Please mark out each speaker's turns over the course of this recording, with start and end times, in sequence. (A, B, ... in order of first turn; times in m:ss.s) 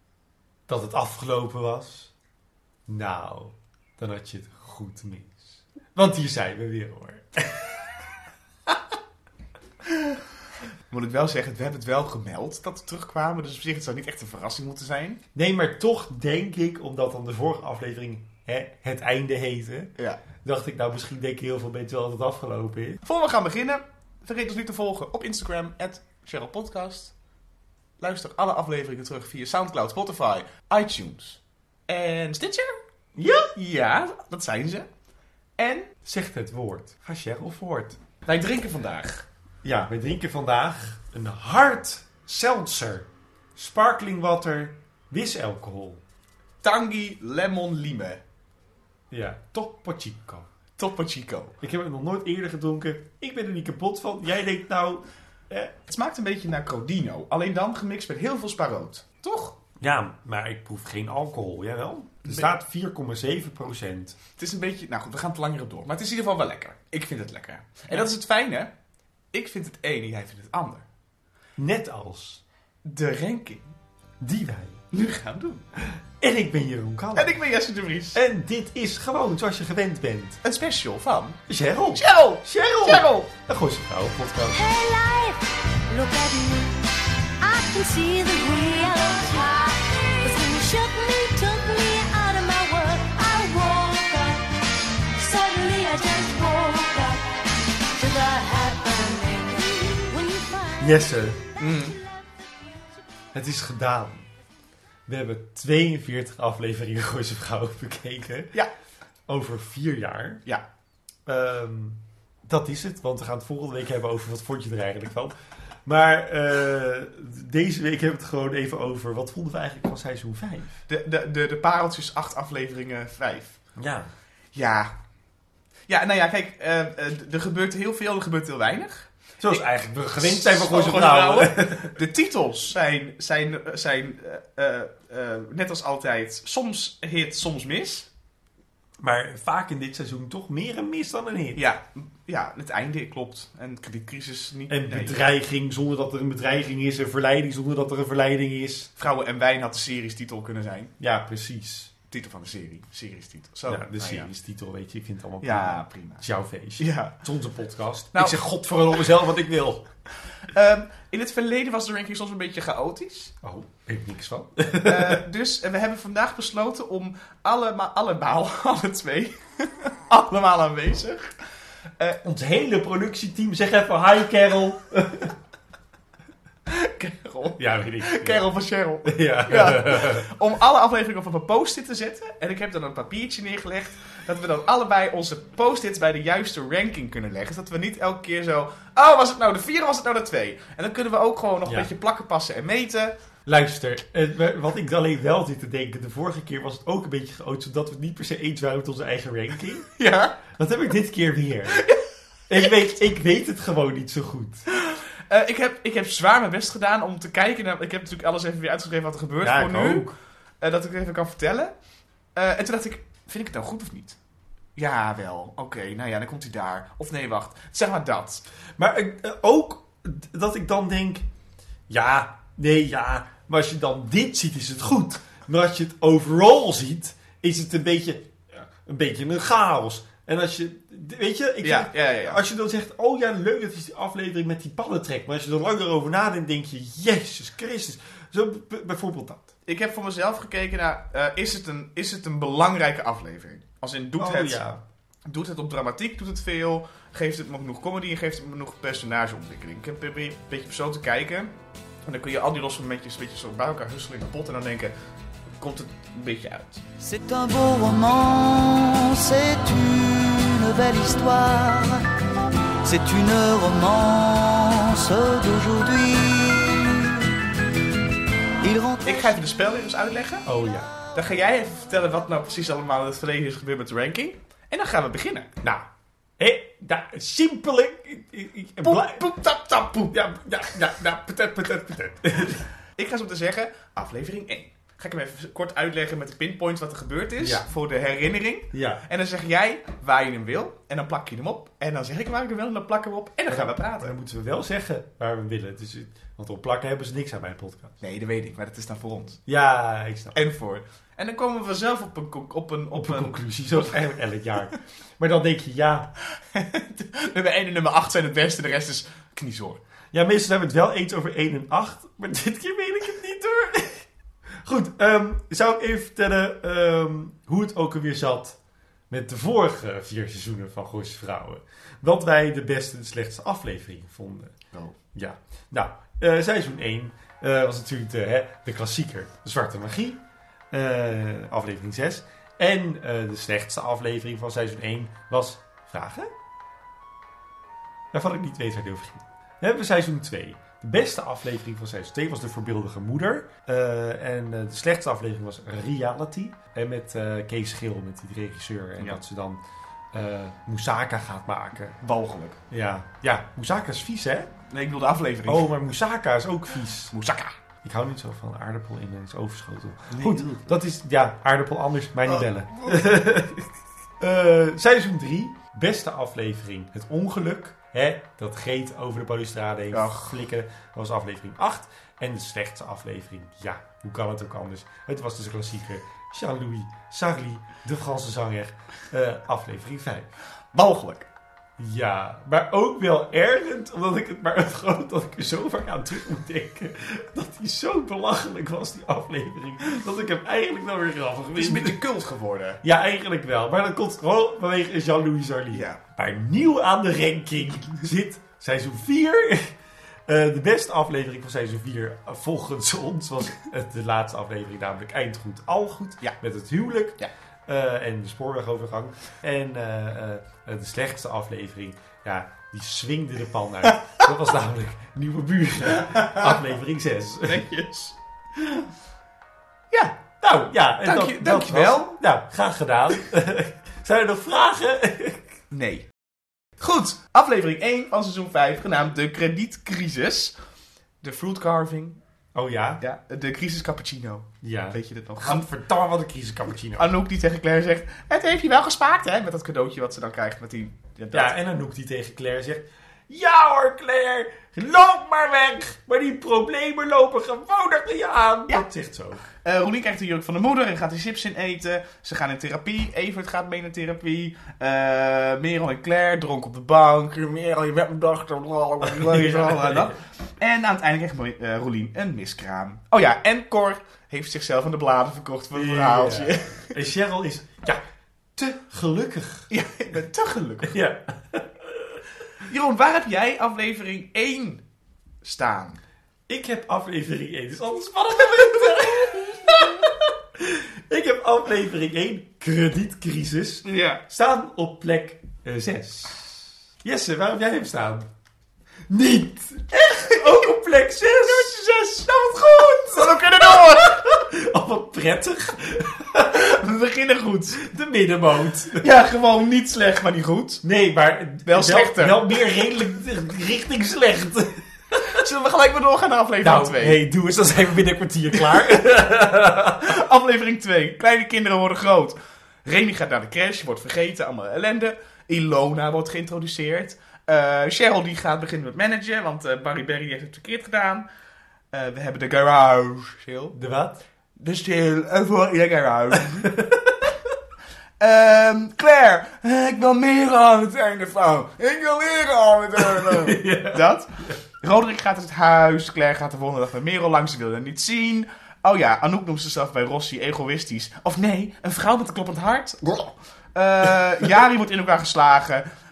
0:00.7-0:02.1 A
0:02.9-0:07.7 A
0:10.9-0:15.2 B
0:15.3-0:19.9 A
0:20.4-0:23.0 A
0:23.0-0:27.1 B
0:28.0-0:32.8 B
0:33.2-0:33.5 A
0:33.5-0:34.9 B
0:35.6-0:35.9 B
0:36.0-0:38.0 A
0:38.3-0:39.2 B
0:39.6-0:46.0 A
0:46.6-0:48.2 B
0:49.1-0:50.5 A
0:50.8-0:51.5 B
0:51.6-0:55.7 A
0:55.9-0:59.6 B
0:59.8-1:04.2 A
1:04.4-1:08.7 B
1:09.3-1:10.8 B
1:11.6-1:12.4 A
1:12.8-1:13.7 B
1:14.2-1:14.8 A
1:14.9-1:15.6 B
1:15.8-1:17.3 A
1:17.2-1:18.2 B
1:18.1-1:20.4 A
1:20.4-1:21.4 B
1:21.5-1:24.6 A
1:21.9-1:23.3 B
1:24.5-1:34.6 C
1:35.2-1:37.4 C
1:37.9-1:42.1 C
1:40.8-1:41.4 A
1:41.6-1:42.0 B
1:43.3-1:44.3 A
1:45.1-1:48.5 A
1:49.3-1:50.4 A
1:51.3-2:00.8 A
2:00.9-2:03.6 B
2:03.8-2:04.1 A
2:04.5-2:04.9 B
2:05.9-2:09.6 B
2:09.4-2:12.0 A
2:10.2-2:18.1 B
2:19.0-2:21.6 A
2:21.6-2:25.2 B
2:24.7-2:28.9 A
2:29.0-2:30.9 B
2:31.0-2:31.9 A
2:32.1-2:34.3 B
2:33.7-2:39.8 A
2:35.4-2:36.3 B
2:36.8-2:37.2 B
2:38.1-2:38.4 B
2:40.5-2:43.3 B
2:43.4-2:45.2 A
2:44.8-2:51.3 B
2:52.2-2:55.3 A
2:56.7-3:13.1 B
2:57.6-2:58.4 A
2:59.0-3:00.3 A
3:13.4-3:19.9 A
3:20.0-3:20.4 B
3:20.5-3:21.8 A
3:21.8-3:22.0 B
3:22.5-3:24.6 A
3:24.7-3:30.1 B
3:29.4-3:30.1 A
3:30.6-3:31.7 B
3:32.3-3:34.2 B
3:34.8-3:38.4 B
3:38.8-3:41.2 A
3:41.9-3:59.5 A
3:51.6-3:52.4 B
3:59.7-4:04.6 B
4:04.2-4:04.8 A
4:05.2-4:11.5 B
4:12.0-4:14.9 B
4:15.6-4:16.8 B
4:17.0-4:22.1 D
4:22.8-4:27.3 D
4:28.6-4:29.3 D
4:29.0-4:30.5 B
4:30.4-4:31.0 A
4:31.1-4:35.5 B
4:36.4-4:39.2 A
4:38.8-4:40.1 B
4:40.1-4:42.7 A
4:43.0-4:54.1 B
4:47.4-4:47.7 A
4:48.7-4:49.0 A
4:53.5-4:58.0 A
4:58.0-4:59.4 B
4:59.5-5:00.4 A
5:00.3-5:04.0 B
5:02.9-5:06.1 A
5:06.5-5:09.8 B
5:10.1-5:14.1 A
5:14.6-5:18.6 A
5:19.1-5:24.6 A
5:25.1-5:36.3 A
5:38.1-5:52.0 A
5:52.0-5:52.6 B
5:52.7-5:54.5 A
5:54.7-5:55.8 B
5:55.4-5:57.1 A
5:57.1-5:57.6 B
5:57.8-6:03.7 A
6:00.1-6:00.6 B
6:02.3-6:03.0 B
6:04.2-6:20.3 A
6:09.9-6:10.4 B
6:20.7-6:21.3 B
6:21.8-6:32.0 A
6:31.6-6:32.8 B
6:32.8-6:57.6 A
6:35.7-6:36.0 B
6:53.9-6:54.2 B
6:56.0-6:56.6 B
6:57.4-6:58.8 B
6:59.9-7:00.3 B
7:00.4-7:05.5 A
7:01.0-7:02.2 B
7:05.7-7:06.0 B
7:06.8-7:10.5 B
7:11.2-7:12.2 B
7:12.5-7:13.0 A
7:13.0-7:15.6 B
7:14.6-7:17.1 A
7:17.0-7:21.5 B
7:21.3-7:29.4 A
7:29.5-7:46.9 B
7:39.0-7:40.1 A
7:45.7-7:48.0 A
7:48.6-7:49.7 A
7:49.7-7:51.0 B
7:50.9-7:52.2 A
7:52.6-7:54.8 B
7:55.4-7:56.0 B
7:56.5-8:08.3 A
7:58.6-7:59.0 B
7:59.7-8:00.0 B
8:03.8-8:04.2 B
8:09.1-8:11.7 A
8:10.2-8:10.7 B
8:11.4-8:14.2 B
8:13.2-8:16.6 A
8:16.5-8:17.8 B
8:17.8-8:19.0 A
8:19.0-8:20.8 B
8:20.8-8:24.9 A
8:21.6-8:22.6 B
8:25.2-8:27.2 B
8:26.6-8:30.1 A
8:30.0-8:41.2 B
8:41.9-8:43.7 B
8:43.7-8:44.2 A
8:44.6-8:46.7 B
8:46.6-8:47.0 A
8:48.2-9:05.9 B
8:53.1-8:54.6 A